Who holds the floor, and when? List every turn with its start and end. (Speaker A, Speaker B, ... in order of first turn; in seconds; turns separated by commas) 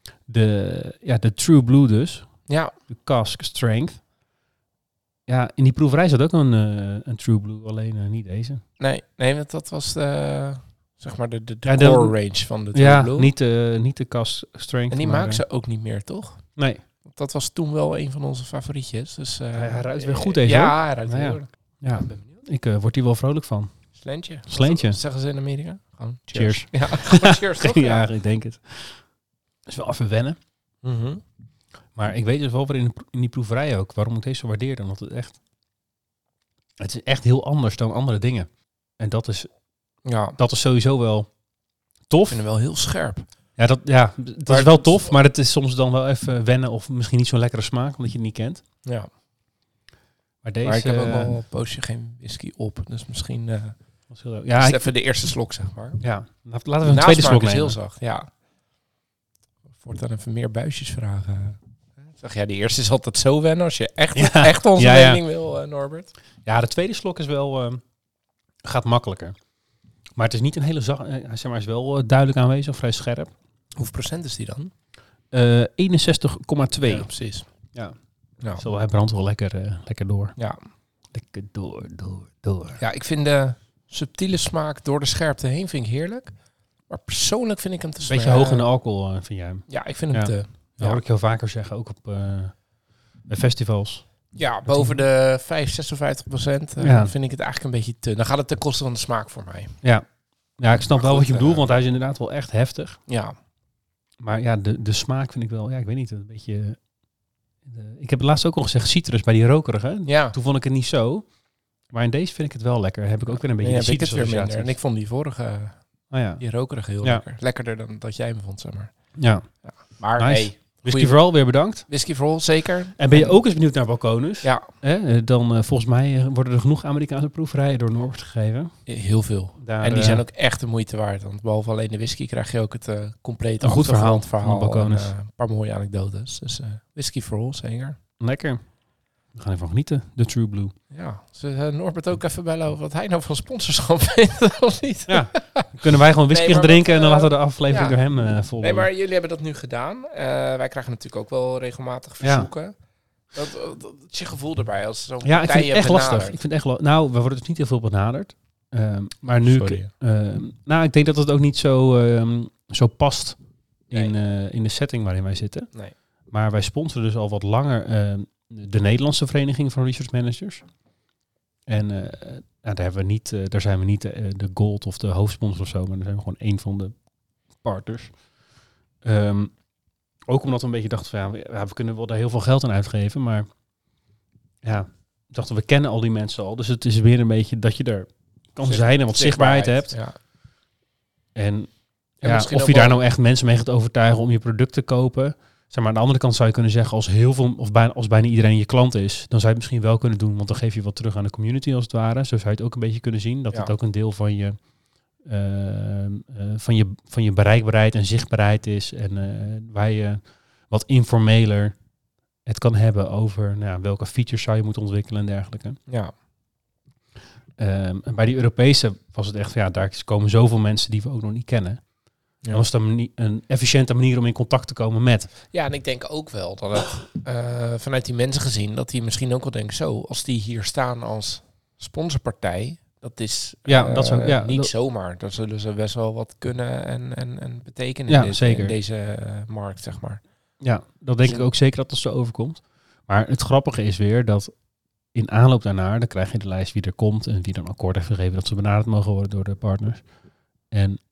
Speaker A: 0.3-4.0, Speaker B: 2.5-2.8, Speaker A: 5.3-8.6, Speaker B: 8.8-13.3, Speaker A: 11.7-12.1, Speaker A: 12.7-15.4, Speaker B: 14.9-16.4, Speaker B: 17.1-22.3, Speaker A: 19.6-23.7, Speaker B: 23.9-28.1, Speaker A: 24.5-25.0, Speaker A: 26.3-29.0, Speaker A: 29.7-30.4, Speaker B: 30.8-31.2, Speaker A: 31.9-35.4, Speaker A: 36.8-39.5, Speaker B: 40.1-40.4, Speaker A: 40.4-41.3, Speaker A: 42.1-42.4, Speaker B: 42.3-43.2, Speaker A: 43.6-48.6, Speaker B: 44.5-45.1, Speaker A: 50.4-51.3, Speaker B: 50.6-53.8, Speaker A: 54.1-54.9, Speaker B: 54.5-56.0, Speaker A: 56.0-57.8, Speaker B: 56.9-58.3, Speaker B: 59.8-66.1, Speaker A: 64.2-65.2, Speaker A: 66.4-67.8, Speaker A: 68.6-69.4, Speaker A: 70.2-73.3, Speaker B: 73.8-74.7, Speaker A: 75.3-77.1, Speaker B: 76.9-77.5, Speaker A: 78.6-80.3, Speaker A: 81.1-82.8, Speaker B: 82.8-86.3, Speaker B: 86.9-88.7, Speaker A: 88.1-92.5, Speaker B: 89.7-91.0, Speaker A: 93.3-94.0, Speaker B: 94.3-99.8, Speaker A: 94.7-95.0, Speaker A: 96.8-97.1, Speaker A: 100.6-103.0, Speaker B: 100.9-101.8, Speaker B: 103.1-103.3, Speaker A: 104.2-106.8, Speaker A: 107.7-111.3, Speaker B: 110.1-110.4, Speaker A: 111.9-114.8, Speaker B: 113.4-115.8, Speaker A: 116.1-116.4, Speaker B: 116.4-118.9, Speaker A: 119.2-119.4, Speaker B: 119.6-121.2, Speaker A: 120.2-121.9, Speaker B: 121.9-123.3, Speaker A: 123.0-128.7, Speaker B: 124.4-124.7, Speaker B: 128.9-138.0, Speaker A: 129.6-130.2, Speaker A: 133.6-135.1, Speaker A: 138.2-138.6, Speaker A: 139.3-140.7, Speaker B: 140.9-145.7, Speaker A: 145.1-148.9, Speaker B: 146.3-148.0, Speaker B: 148.6-152.8, Speaker A: 152.2-152.5, Speaker B: 153.3-156.4, Speaker A: 155.2-163.4, Speaker B: 159.4-159.9, Speaker A: 163.9-165.7, Speaker A: 166.3-170.6, Speaker A: 171.7-176.9, Speaker A: 177.6-178.1, Speaker A: 179.0-179.5, Speaker A: 180.3-183.5, Speaker A: 184.6-189.9, Speaker B: 188.6-190.1, Speaker A: 191.3-204.6, Speaker B: 192.2-193.0, Speaker A: 205.2-211.8, Speaker A: 212.5-215.8, Speaker A: 217.6-221.8, Speaker A: 222.5-225.3, Speaker B: 225.5-240.2, Speaker A: 233.7-234.7, Speaker A: 238.1-238.8, Speaker A: 240.6-244.5, Speaker A: 245.1-250.0, Speaker A: 250.7-251.0